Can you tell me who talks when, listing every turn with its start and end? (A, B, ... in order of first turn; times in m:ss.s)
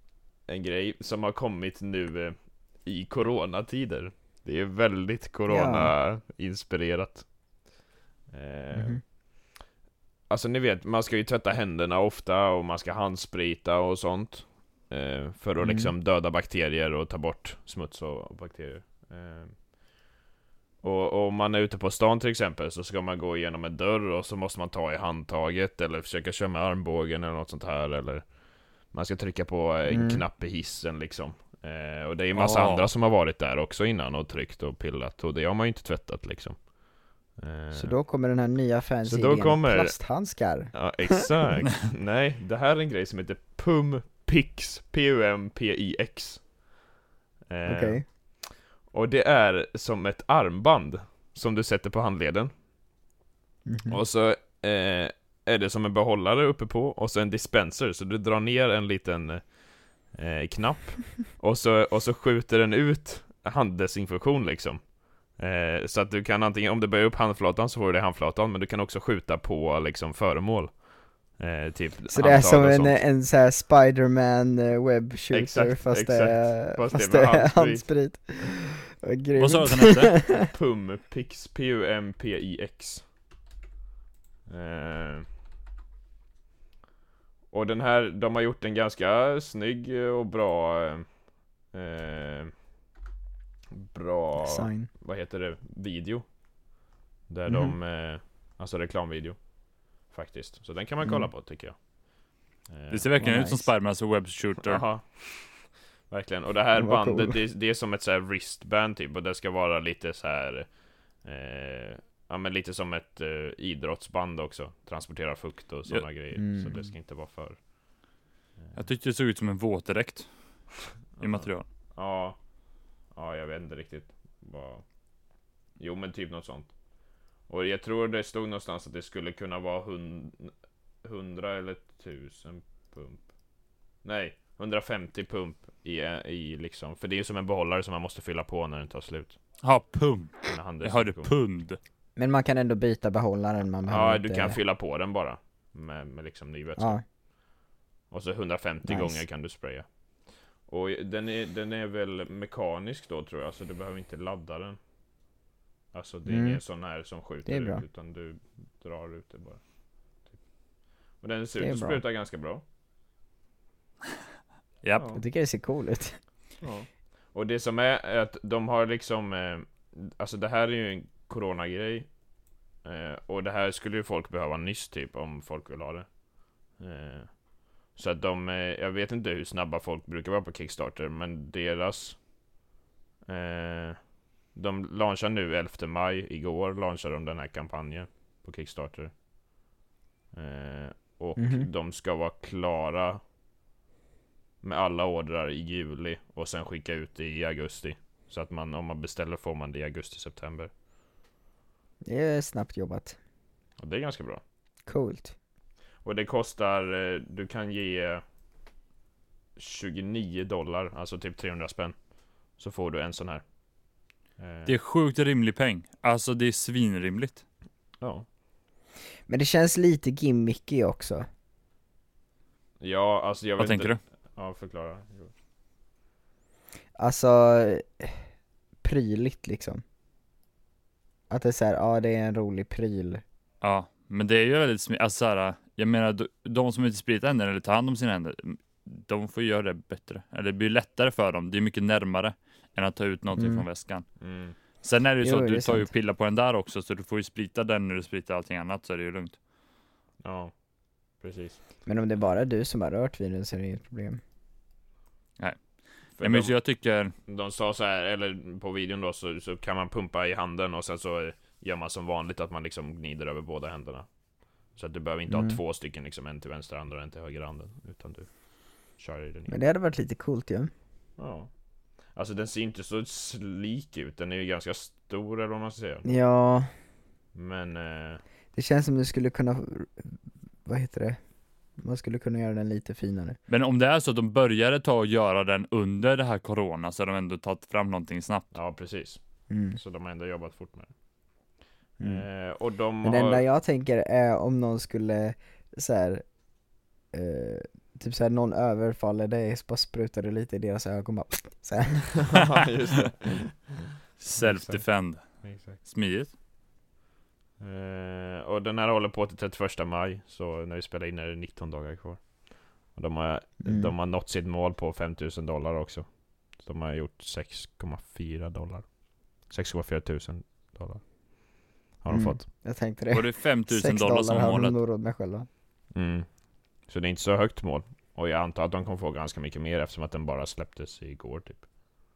0:00.5-0:07.2 A
0:05.5-0:05.9 B
0:08.3-0:09.0 A
0:08.7-0:09.0 B
0:10.3-0:19.6 A
0:15.6-0:15.9 B
0:20.8-0:28.3 A
0:28.9-0:36.7 A
0:29.9-0:30.2 B
0:32.3-0:32.9 C
0:37.4-0:38.0 A
0:37.7-0:41.4 B
0:39.0-0:39.9 A
0:40.7-0:46.4 A
0:47.5-0:52.5 A
0:47.6-0:48.0 B
0:53.6-0:54.0 B
0:53.9-1:13.0 A
1:12.1-1:20.5 B
1:15.3-1:17.8 A
1:19.4-1:20.1 C
1:20.4-1:23.0 A
1:24.5-1:25.2 A
1:27.5-1:31.1 A
1:31.7-1:32.5 A
1:33.7-1:36.2 A
1:34.4-1:34.9 B
1:37.3-1:39.4 A
1:37.5-1:37.7 B
1:40.1-1:41.8 A
1:42.7-1:43.1 A
1:42.9-1:44.8 C
1:43.2-1:43.7 B
1:44.6-1:57.6 A
1:46.8-1:47.4 B
1:56.3-1:56.9 B
1:58.7-2:00.3 C
2:01.2-2:01.6 C
2:01.2-2:02.4 A
2:03.1-2:04.8 A
2:05.8-2:06.7 A
2:07.5-2:13.3 A
2:14.0-2:19.4 A
2:19.6-2:21.8 C
2:20.5-2:21.3 A
2:22.2-2:24.6 B
2:23.9-2:27.0 A
2:26.8-2:27.0 B
2:28.1-2:29.8 A
2:28.8-2:29.2 B
2:30.6-2:34.8 A
2:35.9-2:39.6 A
2:36.3-2:36.6 B
2:37.4-2:37.8 B
2:41.2-2:42.6 A
2:41.6-2:42.0 B
2:44.8-2:45.2 C
2:45.1-2:46.2 B
2:46.6-2:52.1 A
2:52.8-2:56.1 A
2:56.8-2:57.4 A
2:57.9-3:02.2 A
3:03.3-3:04.0 A
3:04.5-3:09.1 A
3:10.3-3:13.2 A
3:11.4-3:11.7 B
3:14.6-3:20.7 A
3:22.0-3:23.2 B
3:23.8-3:24.4 A
3:24.9-3:25.3 B
3:26.0-3:28.2 A
3:29.6-3:33.4 A
3:34.4-3:34.7 A
3:34.6-3:37.4 C
3:38.0-3:38.2 A
3:39.3-3:41.3 B
3:42.8-3:45.3 A
3:43.6-3:44.0 C
3:47.0-3:48.2 B
3:48.8-3:49.8 B
3:51.3-3:53.2 B
3:53.6-4:04.0 C
4:03.4-4:03.6 B
4:04.2-4:04.6 A
4:04.8-4:09.4 C
4:05.2-4:05.9 B
4:10.2-4:10.5 A
4:11.2-4:11.6 A
4:11.8-4:14.2 B
4:16.2-4:16.5 A
4:16.2-4:17.1 C
4:17.3-4:24.1 A
4:24.7-4:28.3 A
4:25.3-4:25.6 B
4:29.0-4:29.5 A
4:29.5-4:30.7 B
4:31.2-4:31.5 A
4:32.1-4:36.0 A
4:36.0-4:36.7 B
4:37.3-4:38.2 A
4:38.5-4:41.2 B
4:41.8-4:43.4 B
4:43.5-4:48.5 C
4:48.5-4:49.2 A
4:49.5-4:49.8 B
4:49.7-4:50.9 A
4:52.0-4:52.2 B
4:52.0-4:53.4 A
4:53.0-4:56.2 B
4:57.1-5:02.4 B
5:02.2-5:05.8 A
5:04.2-5:06.3 C
5:07.6-5:12.3 A
5:12.9-5:18.9 A
5:13.6-5:13.9 B
5:19.4-5:21.0 A
5:22.0-5:22.4 A
5:22.1-5:25.5 B
5:23.1-5:24.8 C
5:25.9-5:26.3 A
5:26.9-5:31.6 A